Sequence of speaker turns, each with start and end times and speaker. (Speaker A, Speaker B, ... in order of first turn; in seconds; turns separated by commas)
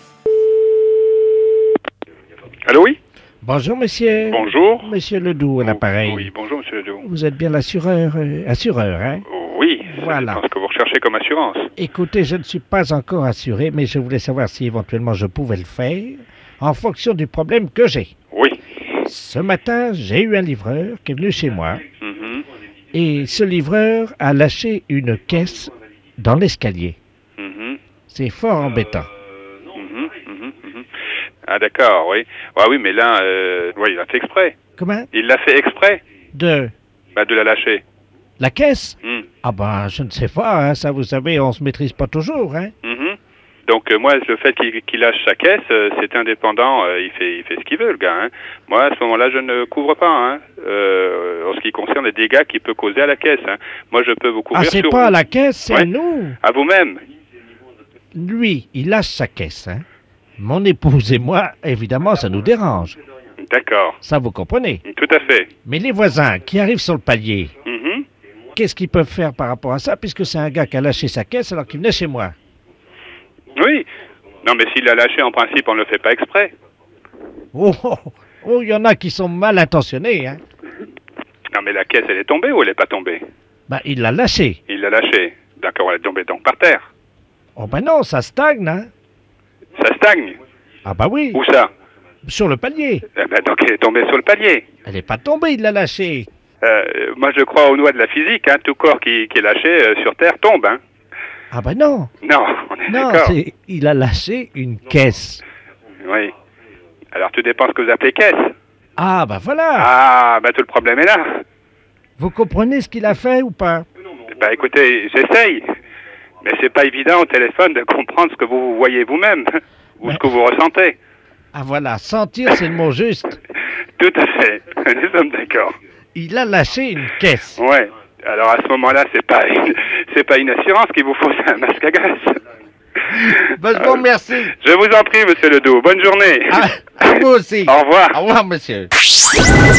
Speaker A: 2.7-3.0, Speaker B: 3.4-6.3, Speaker A: 4.3-4.9, Speaker A: 5.6-7.0, Speaker B: 7.0-9.2, Speaker A: 9.3-11.7, Speaker B: 9.9-10.4, Speaker B: 11.8-18.1, Speaker A: 18.3-18.6, Speaker B: 19.1-21.8, Speaker A: 22.0-22.4, Speaker B: 22.9-27.0, Speaker A: 27.4-27.8, Speaker B: 28.1-29.1, Speaker A: 29.7-30.9, Speaker A: 31.5-34.5, Speaker B: 34.8-35.1, Speaker A: 35.1-36.0, Speaker B: 36.3-36.7, Speaker A: 37.1-37.8, Speaker B: 38.4-42.7, Speaker A: 42.8-55.1, Speaker B: 54.5-56.4, Speaker A: 56.4-57.0, Speaker B: 58.1-59.8, Speaker B: 60.4-63.0, Speaker A: 63.4-64.0, Speaker B: 64.0-64.8, Speaker A: 64.8-65.5, Speaker B: 65.7-67.5, Speaker A: 67.7-68.0, Speaker B: 68.5-72.3, Speaker A: 73.5-73.9, Speaker A: 74.4-76.5, Speaker B: 77.5-80.4, Speaker A: 81.5-83.2, Speaker B: 83.7-84.6, Speaker A: 84.7-86.9, Speaker B: 87.6-88.9, Speaker A: 89.8-90.4, Speaker B: 90.8-91.4, Speaker A: 91.3-91.7, Speaker B: 92.2-93.0, Speaker A: 93.2-94.7, Speaker B: 94.8-96.3, Speaker A: 96.6-100.8, Speaker B: 101.5-102.1, Speaker A: 102.2-103.3, Speaker B: 102.9-105.4, Speaker A: 106.0-106.3, Speaker A: 107.1-108.5, Speaker B: 109.0-109.9, Speaker A: 109.8-111.4, Speaker B: 112.2-113.9, Speaker A: 114.3-115.6, Speaker A: 116.4-121.0, Speaker B: 121.5-123.4, Speaker A: 124.0-125.8, Speaker B: 126.2-127.6, Speaker A: 127.6-132.4, Speaker B: 133.1-134.5, Speaker A: 133.1-138.2, Speaker B: 136.5-138.9